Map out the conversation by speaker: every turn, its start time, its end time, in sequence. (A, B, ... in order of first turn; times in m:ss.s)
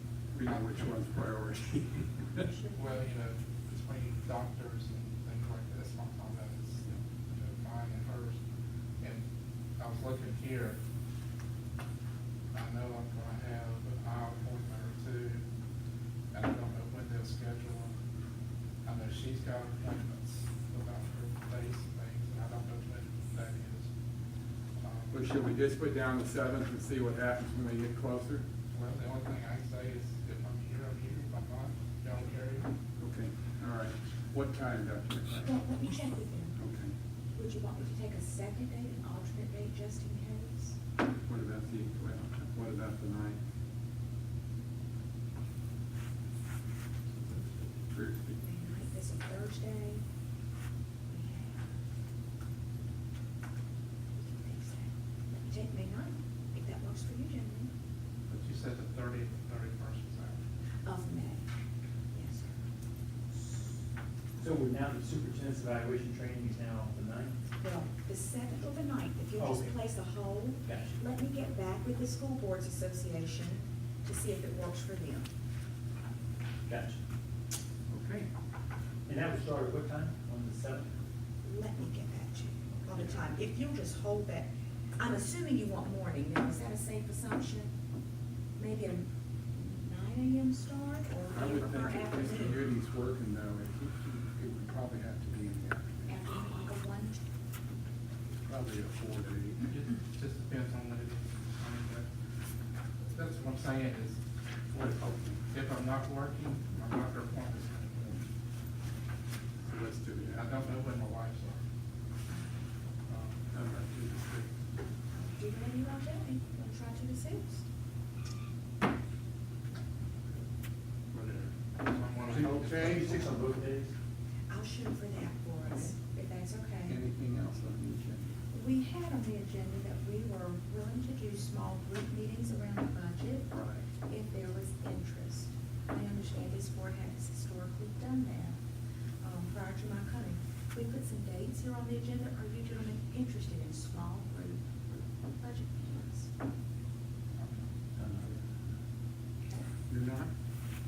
0:00.3-0:02.4 A
0:00.4-0:00.9 B
0:02.3-0:02.9 C
0:02.7-0:08.4 B
0:09.8-0:10.8 B
0:12.5-0:15.4 B
0:16.3-0:17.9 B
0:18.8-0:23.9 B
0:24.8-0:25.2 B
0:25.1-0:28.4 A
0:28.7-0:32.7 B
0:33.0-0:35.6 A
0:35.4-0:36.6 C
0:36.6-0:36.9 A
0:37.3-0:40.8 C
0:41.2-0:43.4 A
0:47.2-0:47.6 B
0:47.9-0:48.4 A
0:48.4-0:50.0 C
0:51.1-0:51.7 C
0:54.2-0:57.7 C
0:58.3-1:00.4 B
1:00.8-1:01.4 C
1:02.1-1:02.5 C
1:04.4-1:07.4 D
1:07.6-1:15.3 C
1:09.4-1:09.7 D
1:10.6-1:11.0 D
1:16.7-1:17.0 D
1:17.9-1:18.3 A
1:19.0-1:20.9 D
1:21.4-1:24.5 C
1:25.0-1:27.7 C
1:28.6-1:32.6 C
1:31.3-1:36.2 A
1:36.1-1:37.2 C
1:38.4-1:39.6 A
1:39.6-1:42.1 B
1:43.1-1:44.2 B
1:44.7-1:48.3 B
1:44.7-1:45.4 A
1:49.6-1:50.5 A
1:50.3-1:51.6 B
1:52.3-1:52.6 C
1:53.1-1:53.4 B
1:53.5-1:54.5 A
1:55.1-1:57.6 C
2:01.1-2:01.5 A
2:01.8-2:03.2 B
2:02.3-2:03.9 D
2:04.5-2:07.0 C
2:06.9-2:08.3 A
2:08.5-2:18.6 C
2:13.5-2:13.8 A
2:19.2-2:26.3 C
2:27.4-2:27.6 B
2:28.0-2:28.3 D
2:29.9-2:30.3 A